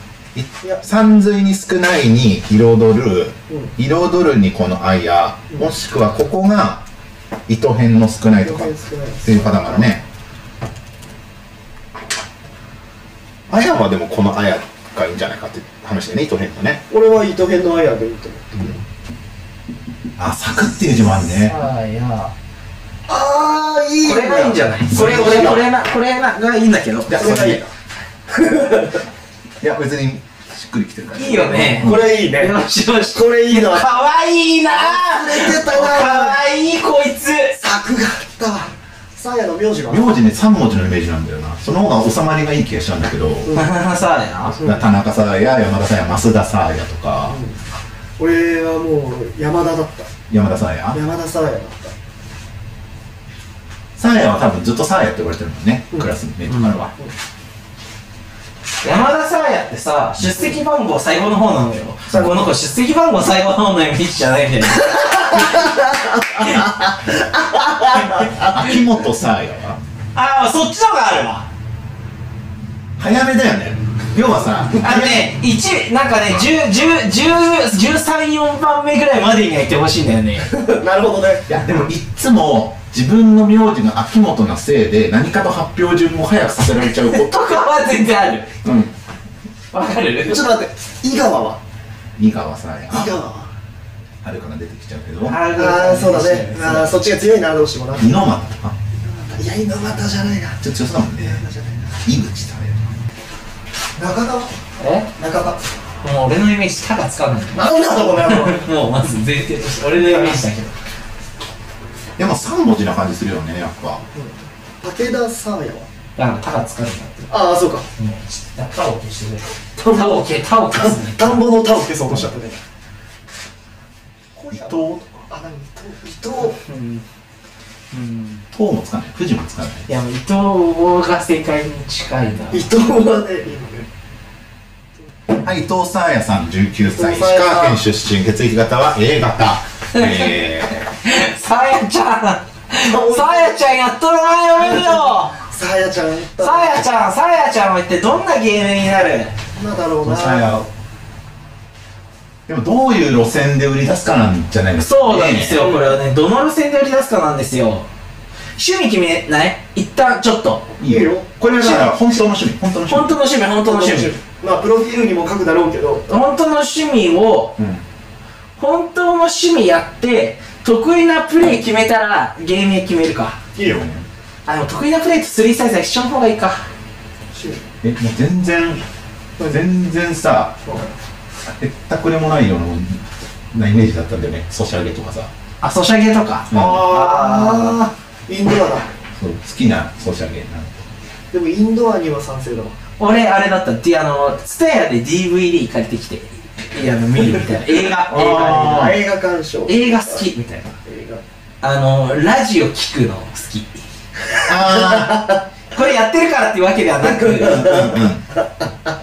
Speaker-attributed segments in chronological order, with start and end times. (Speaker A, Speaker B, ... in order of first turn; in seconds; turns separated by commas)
Speaker A: 0.3-6.8, Speaker A: 7.5-10.0, Speaker B: 8.4-9.9, Speaker A: 13.5-16.8, Speaker B: 16.9-18.8, Speaker A: 20.2-21.6, Speaker C: 21.3-22.3, Speaker B: 23.1-25.5, Speaker C: 24.0-27.2, Speaker A: 24.9-25.6, Speaker A: 27.1-27.6, Speaker B: 27.1-27.7, Speaker B: 28.3-29.0, Speaker A: 29.6-32.1, Speaker C: 31.1-37.6, Speaker B: 31.8-32.6, Speaker B: 33.1-33.9, Speaker B: 34.7-36.4, Speaker B: 37.6-40.1, Speaker A: 39.9-43.5, Speaker C: 43.5-44.6, Speaker A: 44.6-47.4, Speaker B: 47.3-47.6, Speaker B: 48.2-50.1, Speaker A: 50.3-51.0, Speaker B: 50.9-51.9, Speaker A: 54.0-56.9, Speaker C: 58.8-65.7, Speaker B: 65.3-68.5, Speaker A: 68.3-69.8, Speaker C: 70.2-71.5, Speaker A: 73.0-75.3, Speaker C: 74.8-80.5, Speaker A: 76.2-76.6, Speaker B: 80.5-81.9, Speaker A: 81.5-87.4, Speaker C: 87.1-88.5, Speaker A: 88.6-88.9, Speaker C: 89.7-90.5, Speaker B: 90.2-91.6, Speaker A: 92.2-93.2, Speaker B: 92.9-93.5, Speaker A: 94.2-95.4, Speaker C: 95.2-97.0, Speaker B: 95.5-98.2, Speaker A: 98.0-98.8, Speaker B: 99.0-100.6, Speaker A: 100.6-101.4, Speaker B: 101.2-101.9, Speaker A: 102.0-103.0, Speaker B: 104.0-104.5, Speaker C: 104.8-105.1, Speaker B: 105.2-105.6, Speaker C: 106.0-110.7, Speaker B: 107.5-108.7, Speaker B: 110.0-110.4, Speaker A: 112.2-114.0, Speaker B: 114.1-115.9, Speaker C: 116.2-117.3, Speaker B: 117.3-117.9, Speaker C: 118.0-121.5, Speaker B: 119.8-122.6, Speaker B: 124.4-126.6, Speaker A: 124.5-125.2, Speaker C: 126.5-127.0, Speaker C: 127.9-128.4, Speaker A: 128.5-129.9, Speaker C: 129.9-132.7, Speaker B: 132.5-133.9, Speaker A: 135.4-140.9, Speaker B: 136.9-137.8, Speaker C: 139.9-140.3, Speaker C: 141.0-145.4, Speaker B: 142.8-143.6, Speaker B: 144.6-146.9, Speaker C: 146.4-149.3, Speaker B: 149.6-150.5, Speaker A: 150.0-150.7, Speaker A: 152.5-155.6, Speaker C: 154.8-157.9, Speaker B: 155.6-156.0, Speaker C: 158.6-160.7, Speaker A: 160.8-163.2, Speaker B: 160.8-161.3, Speaker C: 161.6-161.9, Speaker C: 162.9-164.1, Speaker B: 163.7-166.1, Speaker C: 166.1-167.6, Speaker A: 167.6-167.8, Speaker C: 168.6-173.4, Speaker B: 173.6-173.9, Speaker A: 173.6-174.1, Speaker C: 174.5-176.7, Speaker B: 177.3-177.6, Speaker A: 177.8-178.8, Speaker A: 179.5-180.6, Speaker B: 180.7-180.9, Speaker A: 181.5-185.3, Speaker C: 185.6-187.8, Speaker A: 186.5-186.9, Speaker B: 186.5-188.9, Speaker A: 189.2-190.9, Speaker B: 191.3-192.8, Speaker C: 193.0-198.7, Speaker A: 198.1-199.0, Speaker B: 198.1-200.2, Speaker C: 199.7-200.8, Speaker B: 200.8-201.2, Speaker C: 201.6-203.8, Speaker A: 204.5-205.3, Speaker B: 204.7-205.4, Speaker C: 205.7-207.9, Speaker B: 207.0-208.0, Speaker A: 207.5-208.2